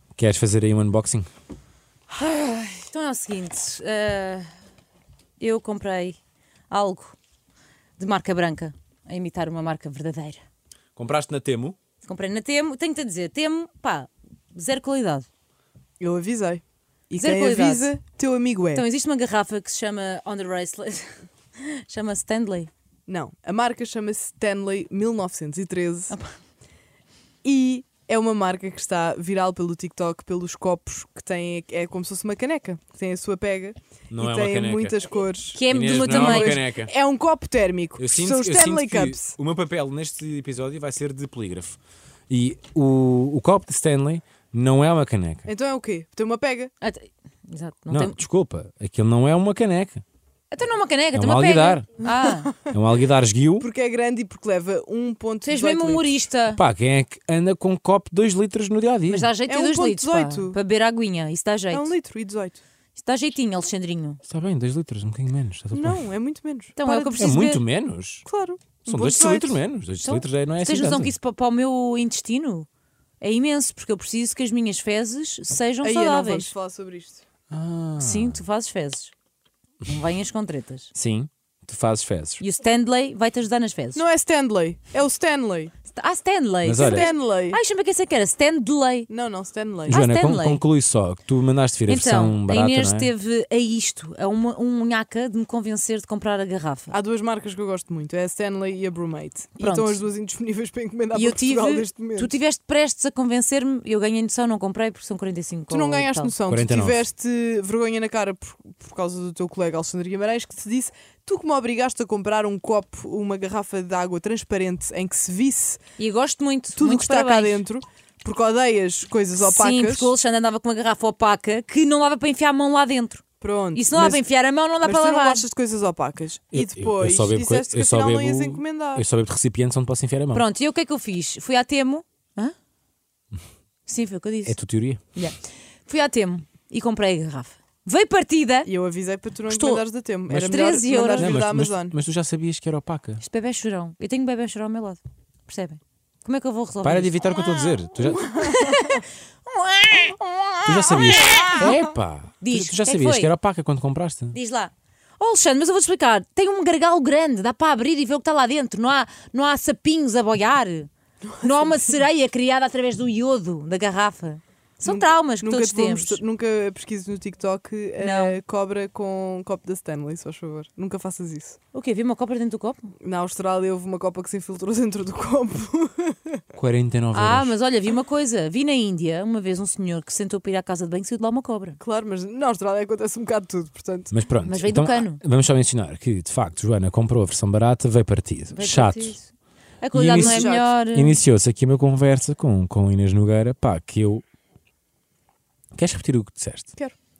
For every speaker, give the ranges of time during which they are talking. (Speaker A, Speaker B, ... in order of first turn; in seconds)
Speaker A: 0.1-1.3, 10.9-11.8, 34.1-35.0, 35.7-36.9, 38.0-45.5, 47.9-50.0, 51.1-52.0, 52.7-53.7, 56.5-59.3, 64.2-66.0, 67.2-68.2, 68.9-71.1, 77.5-78.4, 80.9-82.4, 86.6-87.0, 89.9-93.1, 106.5-107.0, 126.5-130.4, 134.4-135.0, 140.3-140.6, 141.1-143.2, 146.8-148.2, 150.6-154.3, 176.6-177.6, 184.1-189.2, 189.9-190.3, 190.9-194.2, 195.7-196.7
Speaker B: 2.1-4.5, 5.4-6.2, 6.7-7.2, 8.0-10.4, 12.0-15.3, 17.1-17.9, 18.7-22.7, 26.1-26.4, 35.5-36.6, 46.8-48.1, 50.5-52.5, 55.4-56.6, 59.1-61.9, 63.0-64.2, 66.8-67.6, 70.0-72.7, 73.2-76.5, 78.0-79.1, 79.8-80.9, 82.4-84.0, 85.9-89.1, 89.9-90.6, 91.9-96.9, 99.6-100.0, 101.1-106.3, 116.0-117.6, 119.4-123.2, 123.7-125.4, 130.3-132.5, 133.8-134.6, 135.1-138.7, 139.5-141.3, 143.2-151.8, 152.4-153.3, 154.3-160.9, 161.4-166.2, 168.0-168.4, 171.7-172.9, 177.1-181.8, 184.4-185.2, 188.5-189.3, 189.8-191.2
Speaker C: 16.0-18.8, 23.1-26.1, 27.4-39.3, 45.5-46.7, 52.1-52.7, 53.6-56.1, 59.5-60.6, 61.7-62.6, 65.7-67.3, 68.2-69.6, 75.8-77.2, 83.9-85.7, 86.8-87.6, 89.1-90.0, 96.9-102.3, 105.7-115.8, 116.7-120.1, 123.4-124.2, 124.8-129.0, 138.7-141.9, 148.1-148.5, 151.0-151.8, 161.2-161.9, 164.8-171.6, 173.0-176.4, 181.8-184.1, 190.2-190.7